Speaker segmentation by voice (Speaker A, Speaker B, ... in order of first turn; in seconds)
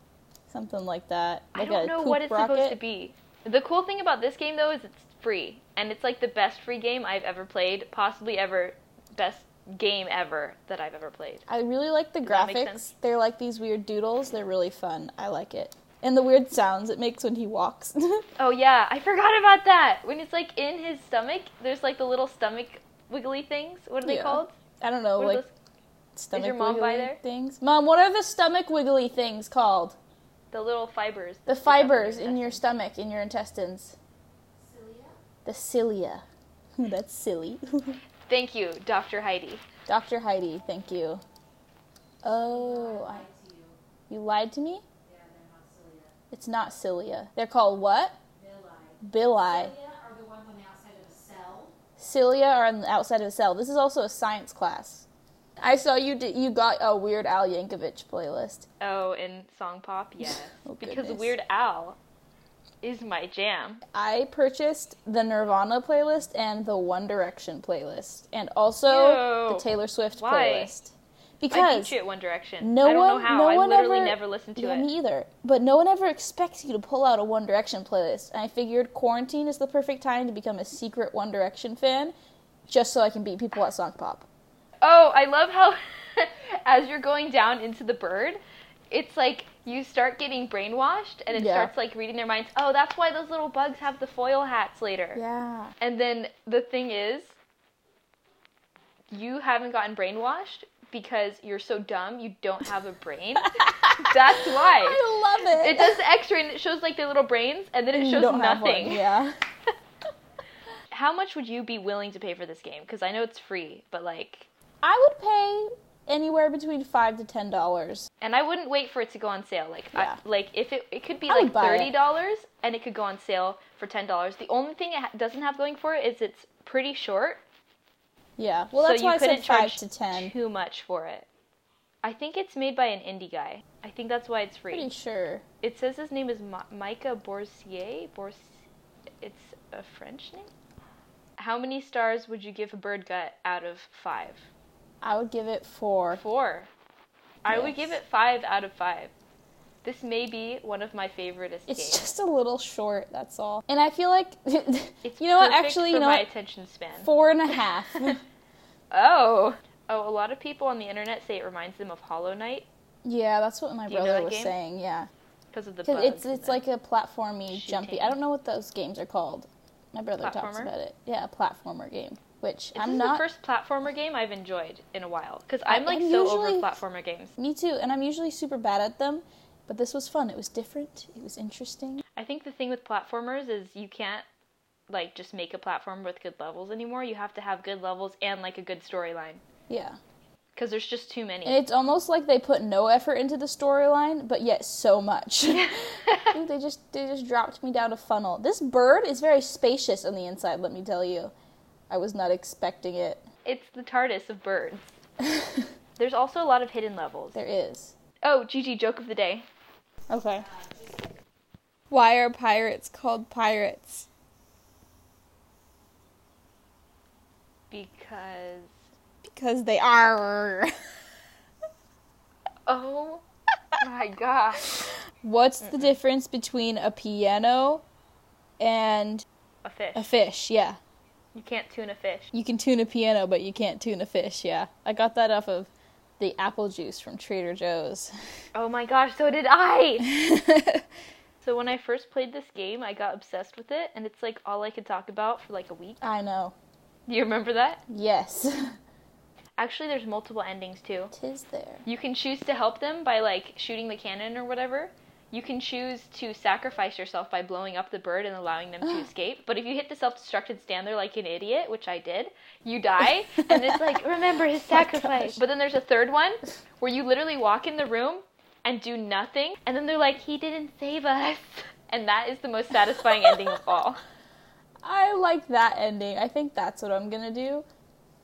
Speaker A: 0.5-2.8, 11.5-18.2, 24.0-25.4, 26.1-30.0, 31.5-34.0, 35.4-36.2, 36.8-38.0, 39.9-41.2, 42.2-43.3, 44.1-44.8, 46.3-48.2, 49.0-49.7, 52.0-55.1, 55.6-58.7, 60.2-61.4, 63.9-72.0, 72.6-82.1, 82.7-84.3, 91.3-91.7, 95.1-95.7, 103.6-106.0, 107.9-109.3, 114.8-118.1, 121.3-121.9, 128.4-130.3, 134.7-135.4, 145.0-146.2, 147.4-148.0, 151.7-156.3, 157.0-158.2, 163.0-165.1, 165.8-173.2, 175.7-176.8, 177.4-182.0, 189.7-190.0, 191.4-201.3, 201.9-203.2, 205.2-205.6, 207.3-207.9, 210.1-210.4, 211.9-214.1, 219.2-220.7, 225.2-227.8, 228.6-229.2, 229.9-230.8, 232.3-238.1, 240.0-240.8, 246.0-246.5, 247.9-248.6, 251.1-251.8, 264.7-265.4, 274.8-277.6
Speaker B: 1.5-11.4, 12.2-12.9, 18.4-24.5, 25.2-25.5, 26.3-27.2, 30.5-32.6, 38.3-39.6, 58.8-62.0, 62.8-63.8, 68.9-69.7, 70.2-70.7, 71.5-74.9, 84.8-88.4, 88.9-95.2, 95.8-97.4, 99.1-105.0, 105.5-109.0, 110.9-114.5, 118.2-127.4, 128.7-131.3, 132.0-134.9, 135.6-138.6, 139.2-140.5, 141.4-144.4, 146.1-146.7, 147.4-149.1, 149.8-152.0, 155.0-158.1, 158.9-162.7, 163.9-164.5, 165.5-166.6, 167.5-168.2, 170.2-170.7, 172.7-177.3, 182.2-184.2, 184.9-189.4, 190.6-191.6, 195.5-196.3, 203.4-204.9, 206.0-207.4, 208.2-209.4, 217.7-218.7, 222.7-223.2, 223.8-224.8, 225.6-226.0, 229.6-230.1, 231.3-232.3, 238.5-240.1, 241.4-246.0, 247.1-247.8, 249.6-251.1, 251.8-274.0
Speaker C: 45.1-46.0, 48.5-49.0, 49.8-51.7